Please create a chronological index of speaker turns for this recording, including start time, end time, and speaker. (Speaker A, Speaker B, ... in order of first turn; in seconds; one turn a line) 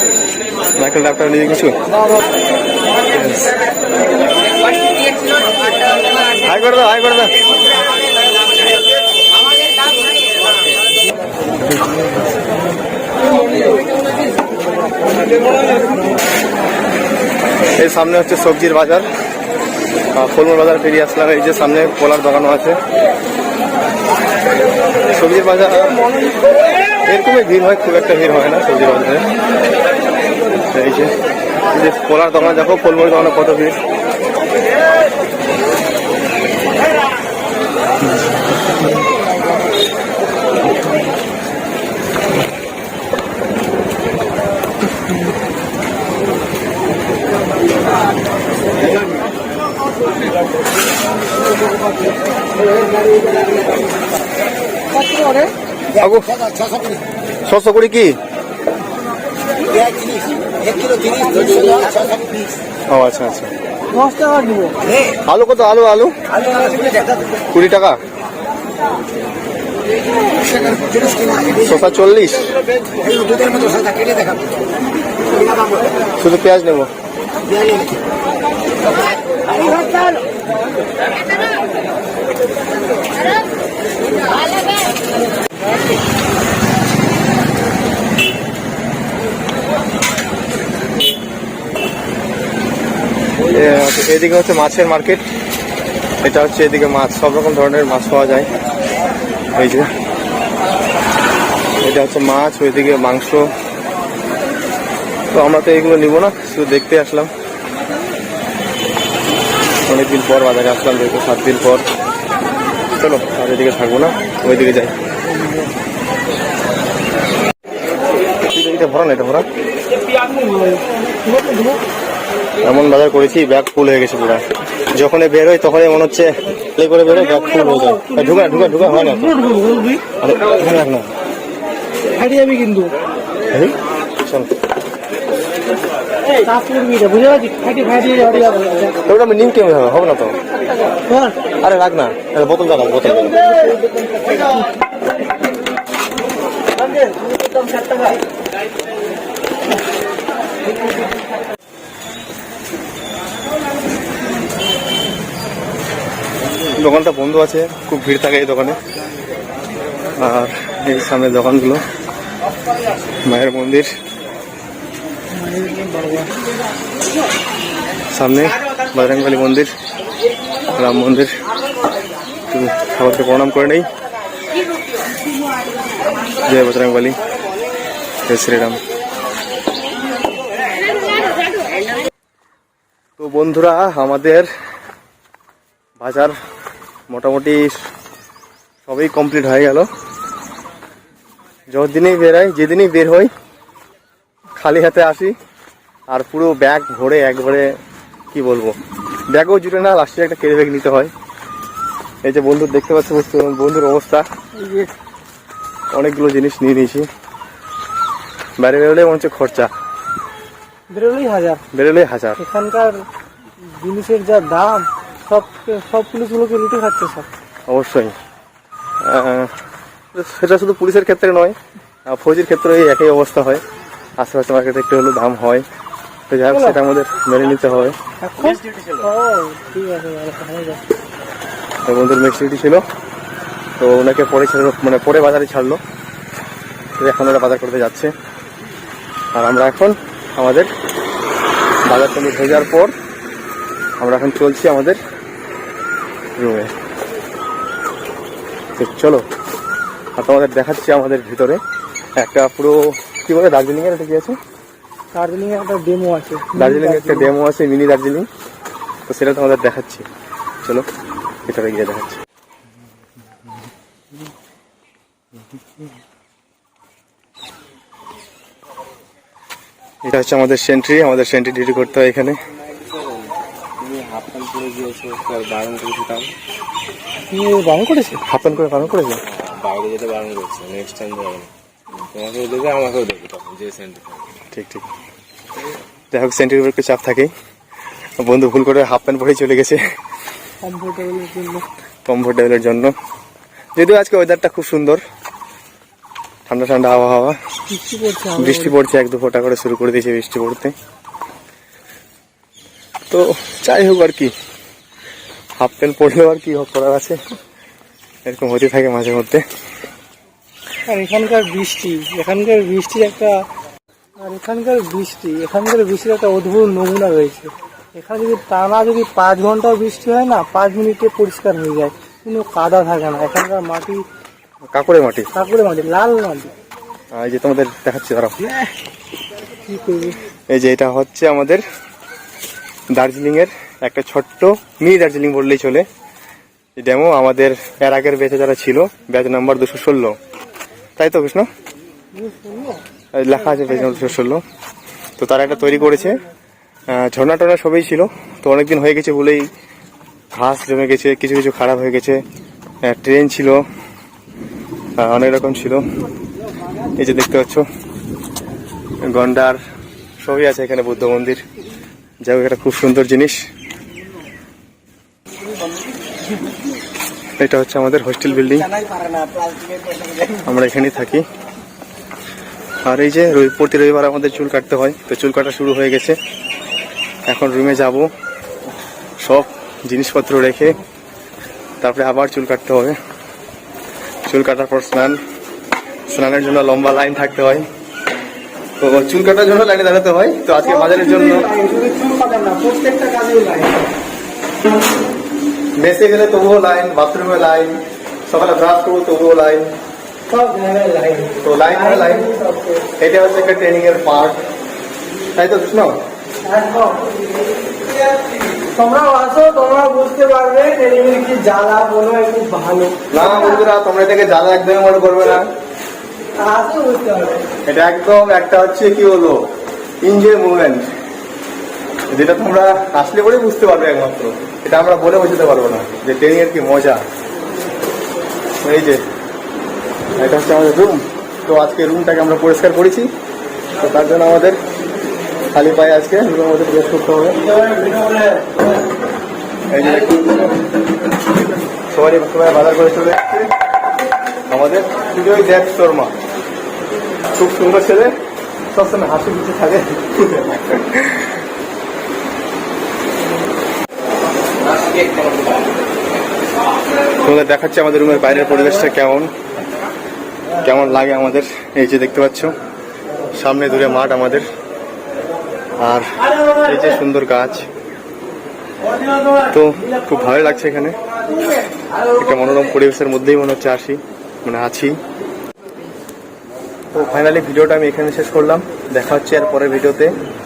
Speaker A: 0.8-1.7
Speaker A: 3.1-3.5
Speaker A: 6.4-7.4
Speaker A: 11.7-12.1
Speaker A: 17.8-19.1
Speaker A: 20.1-22.8
Speaker A: 25.1-26.0
Speaker A: 27.1-29.3
Speaker A: 30.7-31.1
Speaker A: 31.7-33.8
Speaker B: 55.2-55.5
Speaker A: 56.0-56.3
Speaker A: 57.4-58.1
Speaker A: 62.9-63.5
Speaker B: 63.9-64.8
Speaker A: 65.2-66.1
Speaker A: 67.5-68.0
Speaker A: 71.5-72.5
Speaker A: 76.2-76.9
Speaker A: 93.5-95.2
Speaker A: 96.2-98.5
Speaker A: 99.5-99.9
Speaker A: 101.8-103.5
Speaker A: 105.3-107.3
Speaker A: 109.9-111.8
Speaker A: 113.0-114.9
Speaker A: 118.5-119.5
Speaker B: 120.2-121.8
Speaker A: 122.6-124.4
Speaker A: 124.9-129.4
Speaker B: 127.5-130.0
Speaker A: 130.2-131.1
Speaker B: 132.1-132.9
Speaker A: 133.5-134.5
Speaker B: 136.3-138.9
Speaker A: 139.0-140.3
Speaker B: 141.1-141.3
Speaker A: 141.6-143.6
Speaker A: 156.7-158.8
Speaker A: 160.2-161.8
Speaker A: 163.2-163.9
Speaker B: 165.3-166.3
Speaker A: 168.1-169.7
Speaker A: 170.7-171.3
Speaker A: 172.5-173.8
Speaker A: 176.4-177.2
Speaker A: 178.2-178.8
Speaker A: 183.2-184.5
Speaker A: 186.0-186.3
Speaker A: 187.1-187.8
Speaker A: 188.9-189.9
Speaker A: 191.7-193.3
Speaker A: 194.6-195.3
Speaker A: 196.1-197.7
Speaker A: 198.3-198.8
Speaker A: 199.3-201.1
Speaker A: 202.2-204.2
Speaker B: 204.6-204.9
Speaker A: 205.9-207.1
Speaker A: 208.6-209.7
Speaker B: 210.9-211.6
Speaker A: 211.7-212.4
Speaker B: 212.4-213.0
Speaker B: 213.7-217.3
Speaker A: 217.7-218.1
Speaker A: 219.0-219.5
Speaker A: 220.1-223.6
Speaker A: 224.2-225.6
Speaker A: 226.3-228.0
Speaker B: 226.5-226.8
Speaker B: 228.2-230.8
Speaker A: 231.8-232.8
Speaker A: 233.8-235.8
Speaker A: 237.0-238.1
Speaker A: 239.3-240.7
Speaker A: 241.9-242.9
Speaker A: 244.0-245.0
Speaker A: 246.4-246.7
Speaker A: 248.8-249.2
Speaker A: 250.2-251.6
Speaker A: 252.2-254.4
Speaker B: 255.1-257.3
Speaker A: 256.6-258.3
Speaker A: 259.1-260.0
Speaker A: 261.5-262.2
Speaker A: 270.0-272.4
Speaker C: 272.9-273.3
Speaker C: 273.8-276.3
Speaker B: 277.3-278.2
Speaker A: 278.2-279.2
Speaker C: 279.2-281.5
Speaker C: 282.1-284.3
Speaker A: 284.5-284.9
Speaker A: 286.1-287.3
Speaker A: 288.2-289.8
Speaker B: 290.6-291.6
Speaker A: 292.1-292.9
Speaker A: 293.7-295.0
Speaker A: 296.5-297.4
Speaker B: 297.7-298.7
Speaker A: 298.4-300.7
Speaker A: 303.1-304.3
Speaker A: 305.6-307.2
Speaker A: 308.2-309.4
Speaker B: 310.9-313.4
Speaker B: 314.2-324.0
Speaker A: 324.7-325.3
Speaker B: 325.3-326.5
Speaker A: 327.1-328.4
Speaker B: 329.7-330.2
Speaker A: 330.5-331.6
Speaker A: 332.9-335.9
Speaker A: 336.8-340.2
Speaker A: 341.0-341.5
Speaker B: 342.1-342.8
Speaker A: 343.1-344.4
Speaker B: 343.6-344.1
Speaker A: 345.2-346.2
Speaker A: 346.9-349.5
Speaker A: 350.3-352.2
Speaker A: 352.8-353.6
Speaker A: 355.0-355.8
Speaker A: 356.9-357.6
Speaker A: 359.1-359.6
Speaker A: 360.2-361.4
Speaker A: 362.2-363.4
Speaker A: 367.4-368.7
Speaker A: 370.2-371.2
Speaker A: 372.8-376.2
Speaker A: 377.3-378.1
Speaker A: 379.2-380.8
Speaker A: 381.8-383.0
Speaker A: 384.3-385.2
Speaker A: 386.1-387.6
Speaker A: 388.8-391.5
Speaker B: 390.6-393.9
Speaker A: 395.8-399.7
Speaker B: 400.3-402.9
Speaker A: 401.4-402.3
Speaker A: 403.0-404.4
Speaker A: 405.3-405.9
Speaker B: 406.4-413.6
Speaker A: 413.1-415.4
Speaker B: 416.4-417.4
Speaker A: 417.6-419.4
Speaker A: 420.0-420.9
Speaker A: 422.1-427.0
Speaker A: 428.6-429.0
Speaker A: 430.2-433.1
Speaker A: 433.8-434.6
Speaker A: 435.5-437.4
Speaker A: 439.7-440.5
Speaker A: 441.9-443.5
Speaker A: 444.5-446.1
Speaker A: 447.3-448.1
Speaker A: 448.7-451.4
Speaker A: 457.2-459.3
Speaker A: 460.6-462.5
Speaker A: 463.3-464.4
Speaker A: 465.8-467.7
Speaker A: 469.5-471.0
Speaker A: 472.1-475.0
Speaker A: 476.9-480.2